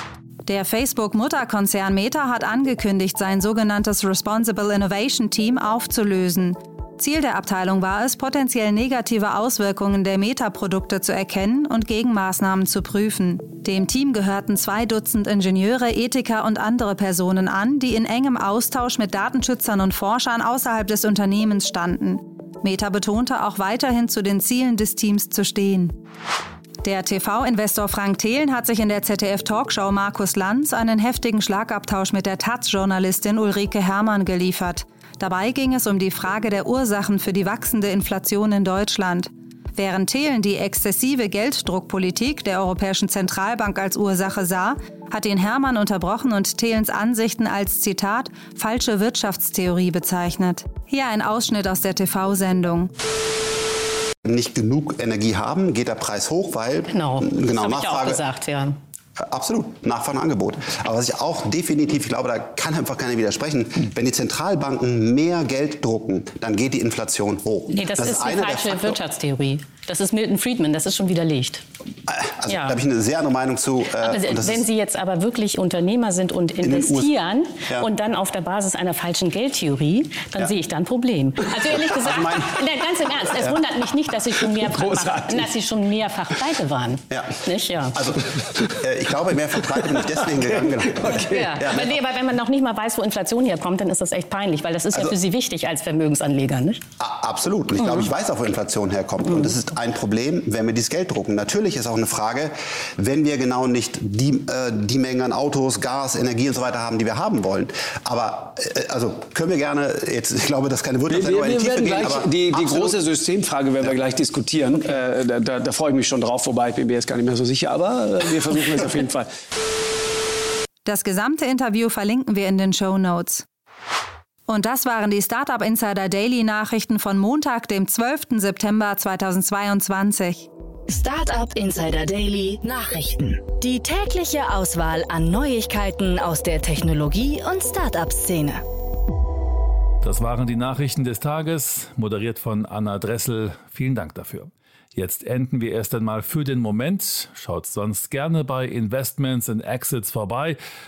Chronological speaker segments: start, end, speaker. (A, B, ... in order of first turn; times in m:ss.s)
0:00.4-0:25.9 A
0:26.8-0:52.9 A
0:54.2-0:58.2 B
0:56.9-0:58.8 C
0:59.2-1:09.0 B
1:07.7-1:11.6 C
1:12.1-1:14.7 B
1:12.5-1:12.8 C
1:13.9-1:28.0 C
1:16.6-1:17.1 B
1:21.7-1:22.7 B
1:24.3-1:25.7 D
1:27.1-1:27.4 B
1:28.0-1:31.9 B
1:29.7-1:31.9 D
1:31.4-1:36.8 C
1:37.0-1:53.0 B
1:37.8-1:38.1 C
1:39.2-1:39.5 C
1:51.1-1:59.3 D
2:00.8-2:03.5 A
2:04.5-2:10.5 A
2:10.9-2:18.6 E
2:20.0-2:30.6 F